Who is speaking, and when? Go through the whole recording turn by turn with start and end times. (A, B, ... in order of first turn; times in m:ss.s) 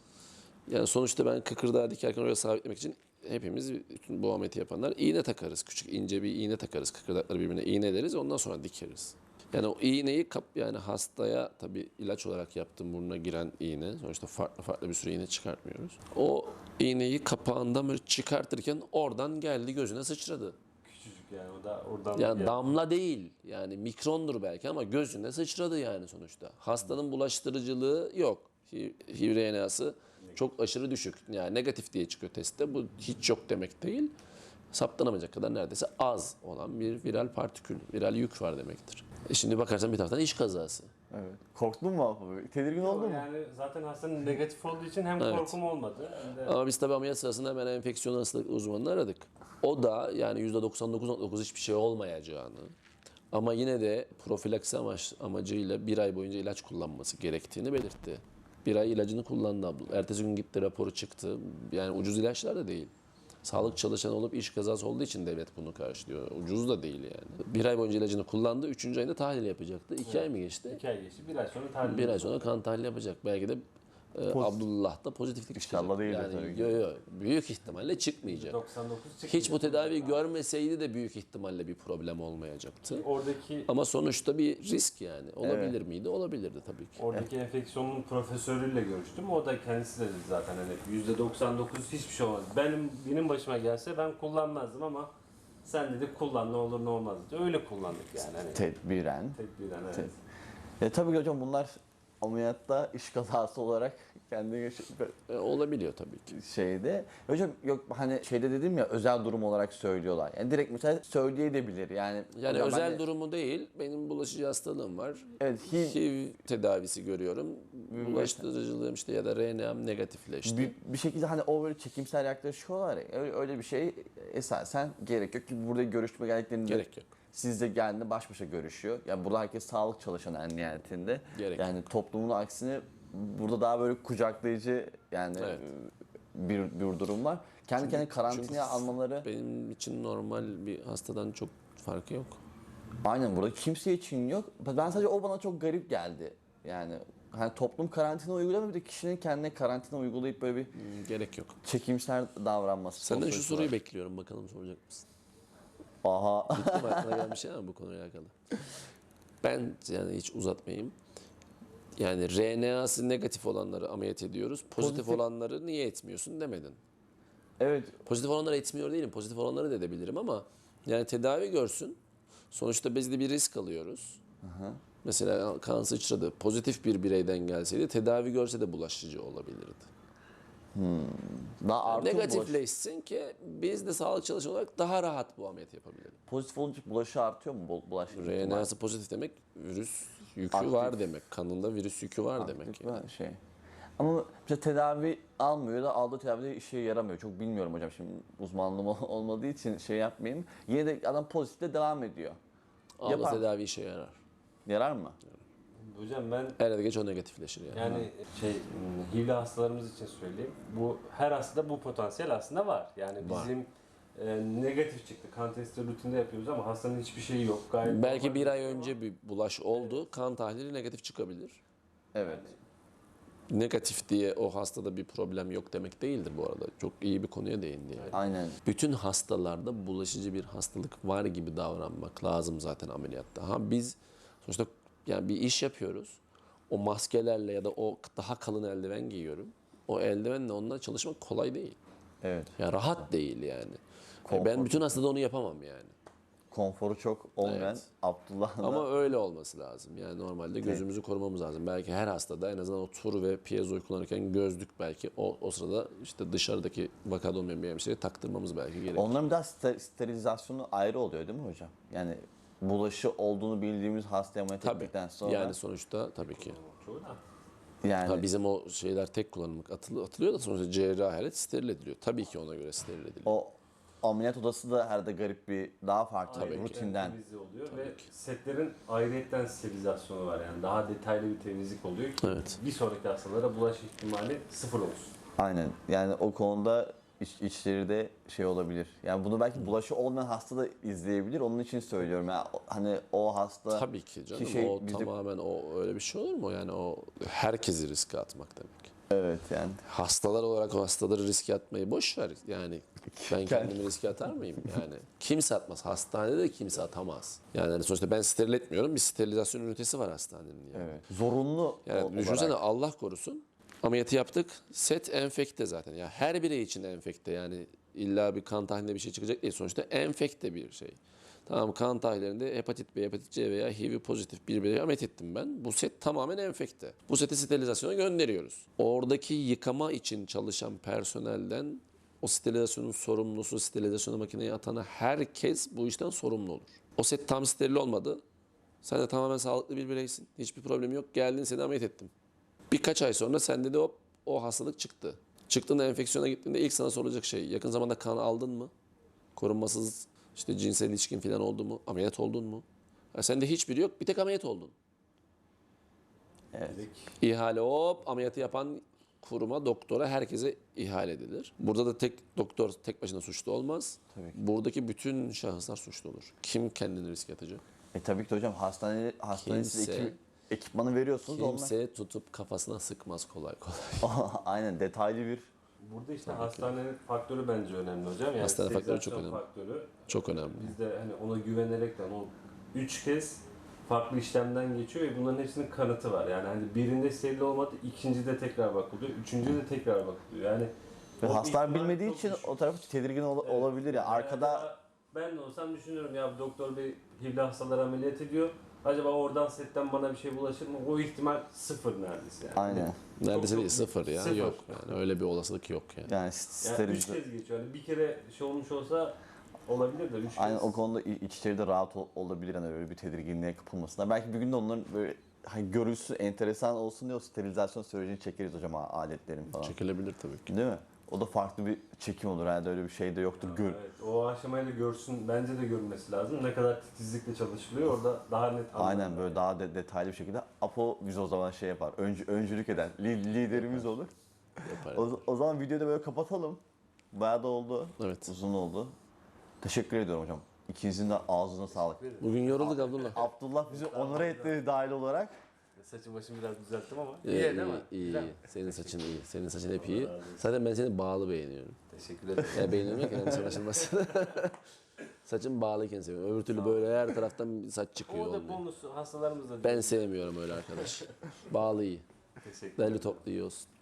0:00.7-0:20.6 A
0:20.8-0:22.8 B
0:22.1-0:34.1 A
0:34.7-0:40.9 A
0:41.1-0:43.3 C
0:42.8-0:46.5 B
0:45.2-0:45.6 A
0:46.4-0:52.7 A
0:53.3-1:02.9 A
1:03.4-1:10.8 A
1:10.0-1:12.4 B
1:11.8-1:18.6 A
1:14.3-1:14.6 C
1:15.5-1:16.8 C
1:18.2-1:20.2 B
1:19.2-1:23.0 A
1:22.8-1:23.7 B
1:23.7-1:27.0 A
1:25.4-1:25.8 C
1:27.0-1:35.1 B
1:35.6-1:38.6 B
1:38.5-1:39.4 C
1:39.3-1:40.1 B
1:40.8-1:45.1 C
1:45.3-1:46.4 A
1:46.3-1:53.0 C
1:52.3-2:00.7 A
1:55.4-1:56.0 C
1:57.9-1:58.4 C
2:00.4-2:19.3 C
2:06.6-2:07.1 A
2:11.3-2:11.8 A
2:15.4-2:15.6 A
2:17.8-2:22.4 A
2:23.0-2:30.7 C
2:30.7-2:31.6 A
2:31.6-2:33.7 C
2:33.0-2:35.0 A
2:36.0-2:37.3 C
2:36.5-2:38.3 A
2:39.4-2:41.0 A
2:42.0-2:46.8 A
2:44.8-2:45.2 C
2:47.6-2:48.0 C
2:48.0-2:52.0 A
2:52.5-2:54.2 A
2:54.4-2:54.8 C
2:55.0-2:59.9 A
3:00.7-3:02.6 C
3:01.8-3:06.2 A
3:06.3-3:08.7 C
3:08.1-3:13.0 A
3:10.5-3:11.0 C
3:12.4-3:13.4 C
3:14.0-3:22.4 C
3:23.0-3:24.2 A
3:23.0-3:23.5 C
3:24.6-3:25.2 C
3:25.8-3:26.6 B
3:26.6-3:28.1 A
3:27.7-3:39.0 B
3:33.2-3:33.5 A
3:37.8-3:41.6 A
3:39.7-3:40.0 B
3:42.1-3:42.5 C
3:42.2-3:42.6 B
3:43.5-4:01.8 A
3:48.0-3:48.2 B
3:48.1-3:48.6 C
4:02.2-4:02.6 C
4:02.6-4:05.9 A
4:04.2-4:05.0 C
4:06.5-4:08.9 C
4:07.4-4:07.8 A
4:08.6-4:19.1 A
4:18.9-4:25.6 C
4:24.6-4:26.6 A
4:26.4-4:27.2 B
4:27.8-4:28.2 C
4:28.0-4:33.4 A
4:33.2-4:37.2 C
4:36.3-4:45.1 B
4:36.3-4:36.8 A
4:37.7-4:38.1 A
4:42.2-4:42.6 A
4:45.4-4:55.1 C
4:53.7-4:58.9 A
4:59.1-4:59.8 C
4:59.8-5:11.0 A
5:03.1-5:03.9 C
5:10.7-5:12.6 C
5:11.8-5:38.2 A
5:38.8-5:42.1 A
5:42.7-5:48.7 A
5:49.3-5:54.7 A
5:56.5-5:56.8 C
5:56.7-5:57.1 B
5:57.2-6:07.6 A
6:07.9-6:11.7 C
6:09.3-6:10.2 A
6:11.2-6:14.1 A
6:14.0-6:15.5 C
6:15.8-6:32.5 B
6:16.2-6:16.8 A
6:18.4-6:19.4 A
6:20.1-6:20.7 A
6:31.2-6:34.7 C
6:33.4-6:44.9 B
6:42.5-6:43.0 C
6:43.2-6:46.1 A
6:46.1-6:47.2 C
6:46.6-6:49.1 B
6:49.6-6:50.8 B
6:50.3-6:59.8 C
6:59.5-7:00.5 A
7:00.5-7:03.8 C
7:03.4-7:09.4 B
7:08.7-7:14.1 C
7:13.5-7:13.9 A
7:14.6-7:15.2 A
7:14.8-7:16.6 C
7:17.1-7:18.9 C
7:18.0-7:18.3 A
7:19.6-7:22.0 C
7:21.7-7:24.6 B
7:22.2-7:23.2 A
7:22.6-7:25.3 C
7:25.8-7:29.1 B
7:27.2-7:31.8 A
7:29.7-7:30.5 B
7:31.9-7:34.0 B
7:32.5-7:33.4 C
7:32.5-7:34.6 A
7:35.2-7:38.6 A
7:36.5-7:36.9 B
7:38.1-7:40.0 B
7:39.6-7:42.0 A
7:40.7-7:41.1 B
7:42.4-7:43.2 B
7:42.8-7:43.6 A